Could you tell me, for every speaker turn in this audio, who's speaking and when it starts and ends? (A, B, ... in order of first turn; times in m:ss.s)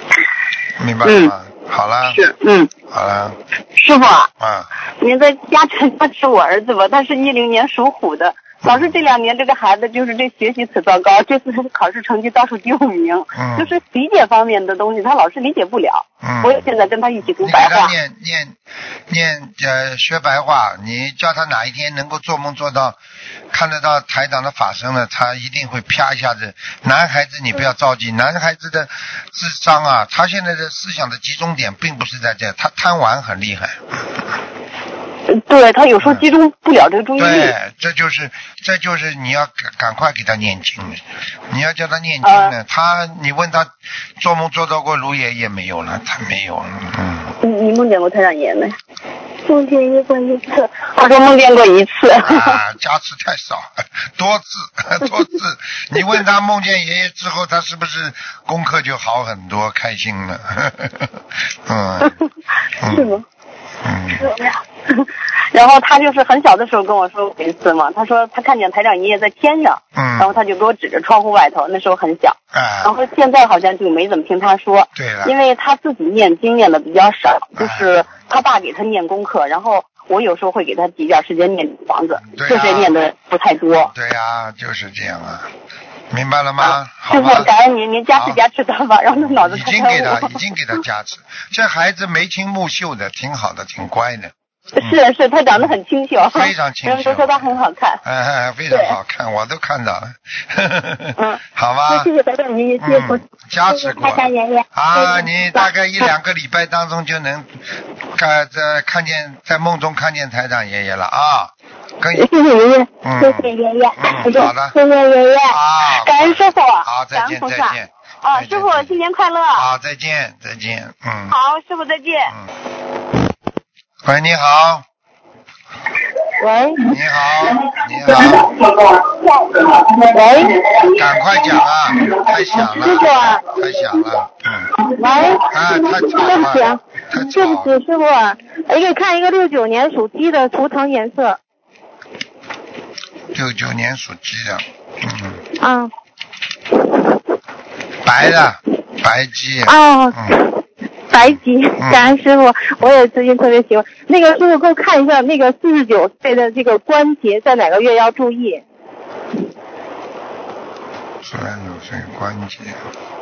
0:00.8-0:02.2 A
0:01.0-0:01.3 B
0:02.1-0:02.7 B
0:02.9-0:03.4 A
0:03.8-0:04.3 B
0:04.4-0:04.7 A
0:05.0-0:17.9 B
0:08.6-0:09.0 A
0:13.3-0:13.7 A
0:16.2-0:16.7 A
0:17.4-0:18.5 A
0:19.1-0:23.0 A
0:23.5-0:33.8 A
0:35.3-0:37.5 B
0:37.2-0:47.4 A
0:42.2-0:42.5 B
0:47.4-0:48.8 B
0:49.5-0:50.6 C
0:50.8-0:52.6 B
0:52.2-1:02.2 A
1:02.8-1:03.1 A
1:02.8-1:03.2 B
1:03.8-1:04.3 A
1:04.2-1:23.9 B
1:09.9-1:10.4 A
1:12.5-1:12.9 A
1:14.9-1:15.3 A
1:17.6-1:17.9 A
1:22.3-1:22.9 A
1:23.8-1:25.5 A
1:26.1-1:27.5 A
1:26.6-1:30.4 B
1:28.1-1:28.4 A
1:29.2-1:35.0 A
1:34.8-1:38.0 B
1:35.6-1:42.1 A
1:38.7-1:39.0 B
1:41.9-1:43.1 C
1:42.8-1:52.3 A
1:43.9-1:44.6 C
1:52.2-1:55.5 C
1:53.0-1:54.8 A
1:55.4-1:59.0 A
1:55.8-1:59.6 B
1:59.5-2:01.4 A
2:01.3-2:02.3 B
2:04.0-2:04.8 A
2:06.4-2:06.8 C
2:06.8-2:08.5 A
2:08.1-2:08.5 C
2:09.1-2:10.7 C
2:10.8-2:14.7 A
2:12.7-2:13.4 C
2:15.0-2:15.5 C
2:15.4-2:17.8 A
2:16.0-2:21.4 C
2:23.3-2:25.4 A
2:25.6-2:25.8 C
2:28.0-2:30.4 A
2:29.7-2:30.3 C
2:31.1-2:38.6 C
2:31.2-2:32.2 A
2:41.2-2:42.8 A